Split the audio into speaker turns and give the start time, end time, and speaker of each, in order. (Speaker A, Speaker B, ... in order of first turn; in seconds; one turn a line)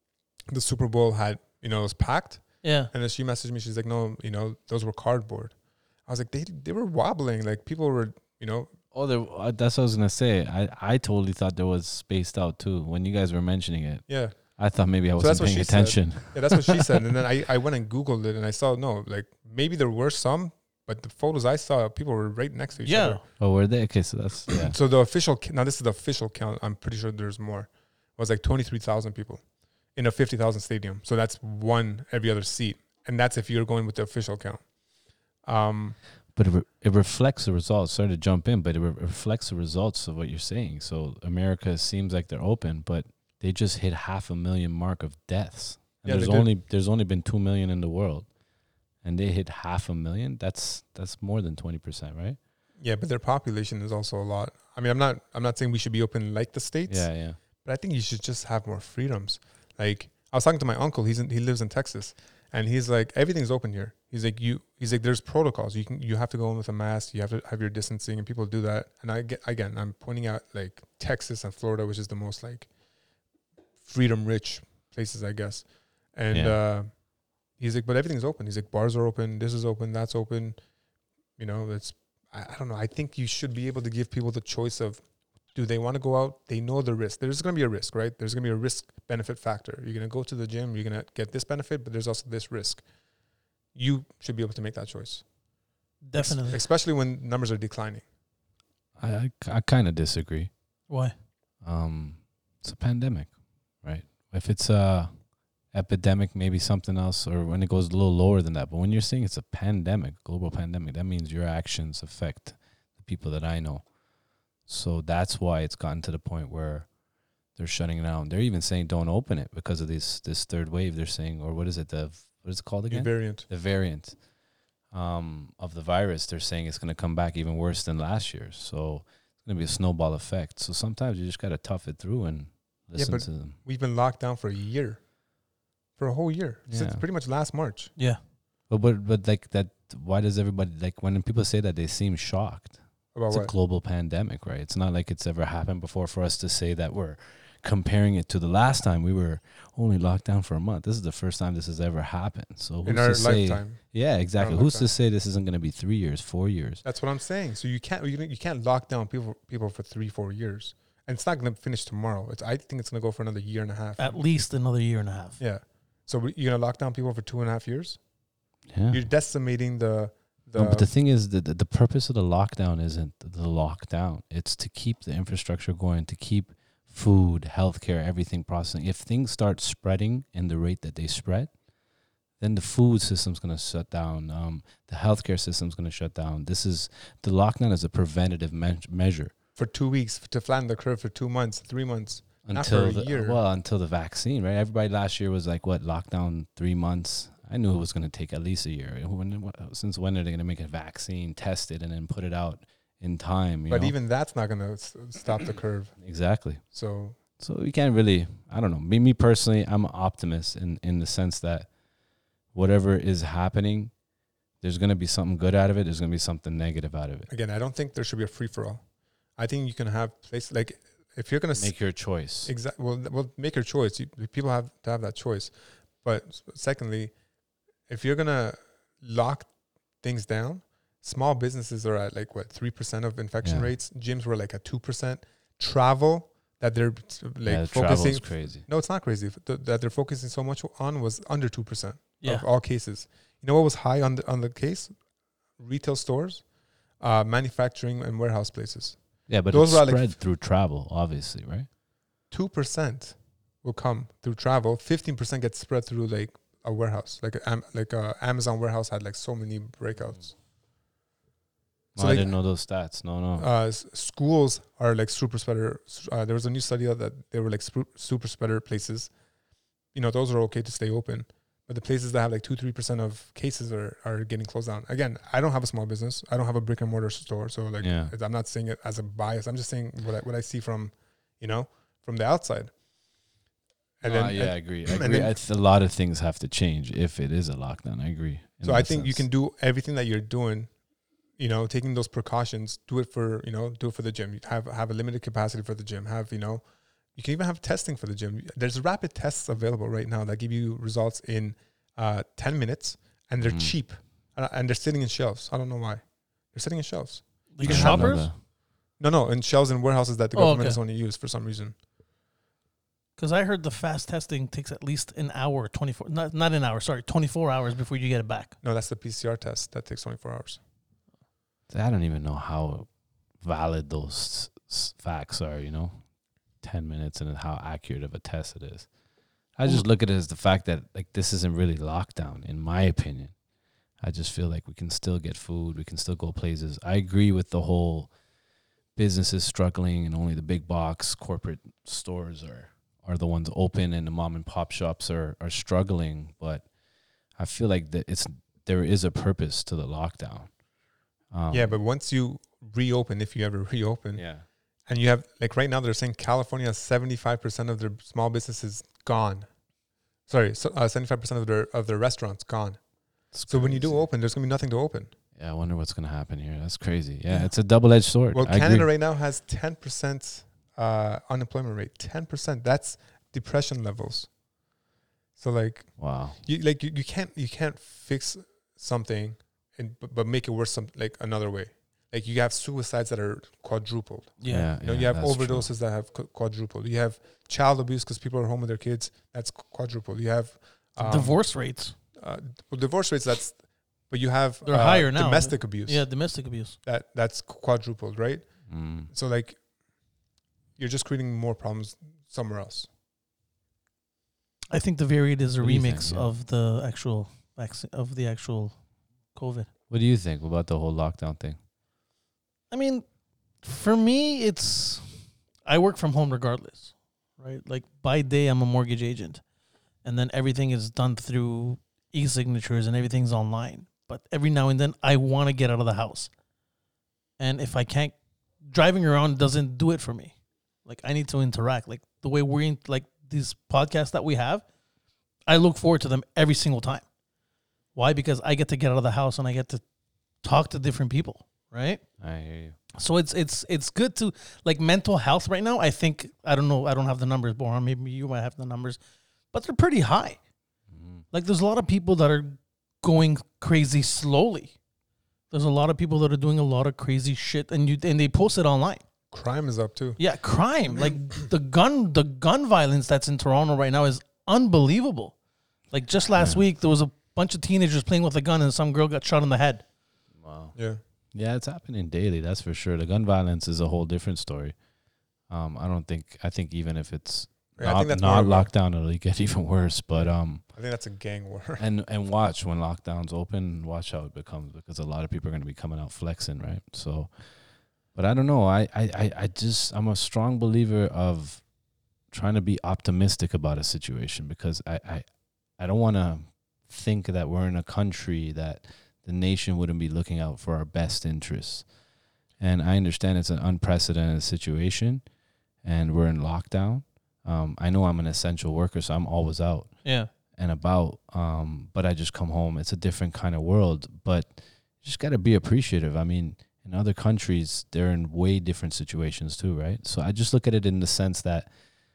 Speaker A: 0.5-8.7
Speaker B: 2.6-2.9
Speaker C: 8.9-16.8
Speaker A: 14.1-14.6
Speaker A: 15.2-23.2
Speaker B: 22.8-23.2
Speaker C: 23.4-24.8
Speaker A: 24.5-29.4
Speaker A: 29.9-34.7
Speaker A: 35.4-36.0
Speaker C: 36.3-48.3
Speaker A: 46.0-46.5
Speaker C: 49.0-52.4
Speaker A: 52.8-72.7
Speaker C: 56.9-57.4
Speaker A: 73.8-77.0
Speaker C: 76.3-76.6
Speaker A: 77.5-80.6
Speaker A: 81.4-92.8
Speaker A: 93.7-95.2
Speaker B: 96.0-96.6
Speaker A: 96.2-98.0
Speaker C: 99.0-100.5
Speaker B: 100.9-101.1
Speaker C: 101.6-113.9
Speaker C: 114.6-116.9
Speaker C: 117.5-124.2
Speaker A: 122.9-123.5
Speaker C: 124.9-133.6
Speaker A: 132.9-135.0
Speaker A: 136.0-137.9
Speaker C: 136.7-137.0
Speaker C: 138.7-156.8
Speaker A: 143.1-143.5
Speaker A: 152.8-154.9
Speaker A: 156.8-164.2
Speaker B: 164.0-165.4
Speaker A: 165.4-168.0
Speaker C: 168.7-169.0
Speaker A: 168.9-170.9
Speaker C: 170.6-181.5
Speaker C: 182.4-189.3
Speaker A: 189.6-193.4
Speaker C: 192.4-203.9
Speaker A: 203.7-206.0
Speaker C: 206.0-206.6
Speaker A: 206.7-207.2
Speaker C: 207.4-211.7
Speaker C: 212.5-213.9
Speaker C: 214.6-217.3
Speaker A: 217.3-218.8
Speaker A: 219.4-221.9
Speaker C: 221.5-222.5
Speaker A: 222.4-227.1
Speaker A: 227.9-229.5
Speaker A: 230.0-244.9
Speaker C: 233.4-233.7
Speaker C: 237.4-238.7
Speaker A: 245.6-246.4
Speaker A: 247.0-250.1
Speaker C: 249.3-251.7
Speaker A: 252.3-260.4
Speaker C: 261.9-263.4
Speaker A: 261.9-262.4
Speaker A: 263.4-269.1
Speaker A: 269.9-282.7
Speaker C: 277.8-278.1
Speaker A: 284.0-285.3
Speaker C: 284.0-289.2
Speaker A: 288.6-290.7
Speaker A: 291.4-296.6
Speaker A: 297.1-308.4
Speaker C: 303.4-303.7
Speaker B: 307.5-308.3
Speaker C: 307.6-308.4
Speaker A: 309.0-311.8
Speaker B: 310.3-310.8
Speaker B: 313.2-318.5
Speaker A: 318.6-320.6
Speaker C: 321.7-322.9
Speaker C: 323.4-326.0
Speaker C: 326.6-328.9
Speaker C: 329.6-333.3
Speaker C: 334.0-338.1
Speaker C: 338.9-346.7
Speaker C: 347.3-350.5
Speaker C: 351.3-351.8
Speaker A: 351.5-354.3
Speaker C: 354.1-354.4
Speaker A: 354.9-359.5
Speaker A: 360.3-362.8
Speaker C: 363.3-364.1
Speaker A: 363.3-365.1
Speaker C: 365.3-368.9
Speaker A: 368.3-374.3
Speaker A: 375.4-391.4
Speaker C: 376.0-376.4
Speaker B: 384.4-384.7
Speaker C: 384.5-385.7
Speaker B: 391.0-391.9
Speaker A: 392.2-396.1
Speaker B: 394.6-396.8
Speaker A: 396.8-399.6
Speaker C: 398.7-399.1
Speaker A: 400.8-402.9
Speaker B: 404.7-408.7
Speaker C: 405.6-406.3
Speaker B: 409.3-409.7
Speaker C: 409.9-411.6
Speaker B: 412.7-413.0
Speaker B: 413.6-419.4
Speaker B: 420.0-426.3
Speaker B: 427.4-428.1
Speaker B: 428.6-434.6
Speaker B: 435.5-437.0
Speaker B: 437.9-439.8
Speaker B: 440.4-442.0
Speaker C: 442.2-442.8
Speaker B: 443.0-449.0
Speaker B: 449.5-450.4
Speaker C: 450.9-451.2
Speaker B: 451.3-454.7
Speaker B: 455.5-459.0
Speaker A: 459.3-460.2
Speaker B: 460.2-465.3
Speaker B: 465.9-469.8
Speaker C: 470.4-470.7
Speaker C: 471.3-474.8
Speaker C: 475.5-480.6
Speaker A: 477.8-478.7
Speaker A: 480.1-481.8
Speaker C: 481.8-487.6
Speaker C: 488.1-491.6
Speaker C: 492.3-501.9
Speaker C: 502.6-505.2
Speaker C: 505.8-521.7
Speaker B: 510.0-510.3